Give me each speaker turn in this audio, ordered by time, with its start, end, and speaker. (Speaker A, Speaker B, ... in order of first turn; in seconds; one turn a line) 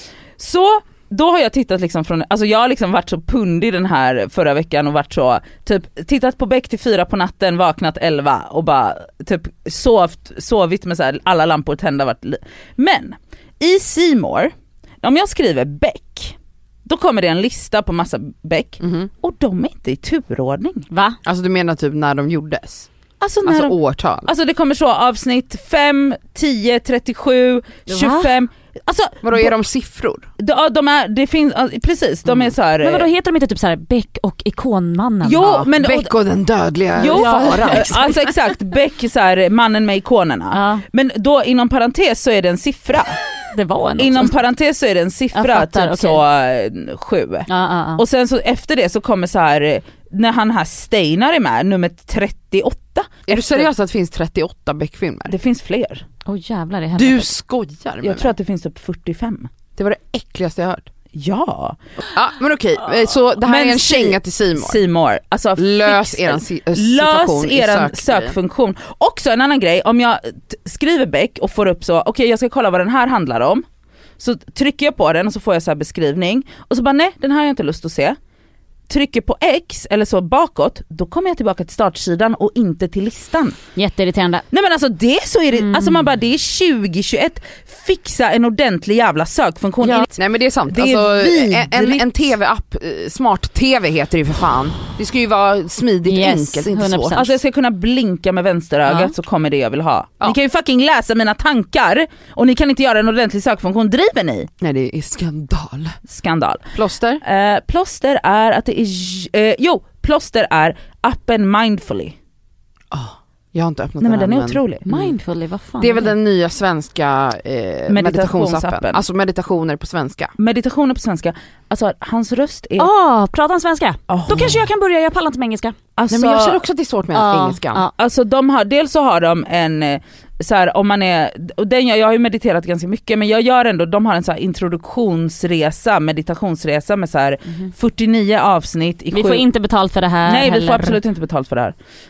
Speaker A: 0.4-20.9
Speaker B: 18.8-19.1
Speaker C: 20.9-21.2
Speaker B: 21.2-22.9
Speaker A: 23.2-29.5
Speaker B: 23.4-24.3
Speaker C: 27.9-28.3
Speaker B: 29.2-30.3
Speaker A: 30.4-33.1
Speaker C: 32.8-35.6
Speaker A: 35.2-36.1
Speaker B: 35.4-38.1
Speaker A: 37.0-43.2
Speaker C: 37.0-38.1
Speaker C: 40.5-40.8
Speaker C: 43.5-44.4
Speaker A: 44.0-53.7
Speaker C: 45.3-46.2
Speaker C: 47.5-48.0
Speaker B: 53.3-55.4
Speaker A: 55.3-56.0
Speaker C: 56.3-57.3
Speaker B: 57.0-58.3
Speaker A: 58.0-59.5
Speaker B: 59.8-60.9
Speaker A: 61.1-61.8
Speaker B: 62.1-64.8
Speaker A: 63.4-73.7
Speaker B: 65.6-68.4
Speaker A: 74.2-78.2
Speaker A: 78.9-83.6
Speaker C: 83.8-84.5
Speaker A: 84.5-90.1
Speaker C: 85.6-86.0
Speaker B: 90.2-97.2
Speaker A: 90.7-92.3
Speaker C: 96.1-97.3
Speaker A: 97.1-104.5
Speaker C: 98.9-99.1
Speaker B: 104.6-106.0
Speaker A: 106.1-112.2
Speaker B: 106.7-107.2
Speaker B: 112.9-115.1
Speaker A: 114.0-114.9
Speaker C: 114.9-116.2
Speaker B: 115.8-120.3
Speaker A: 117.9-119.0
Speaker A: 120.4-122.9
Speaker C: 122.8-125.8
Speaker A: 124.1-124.7
Speaker A: 126.0-126.6
Speaker B: 126.1-127.8
Speaker C: 127.1-127.9
Speaker A: 128.0-139.5
Speaker C: 139.1-141.0
Speaker A: 140.2-141.8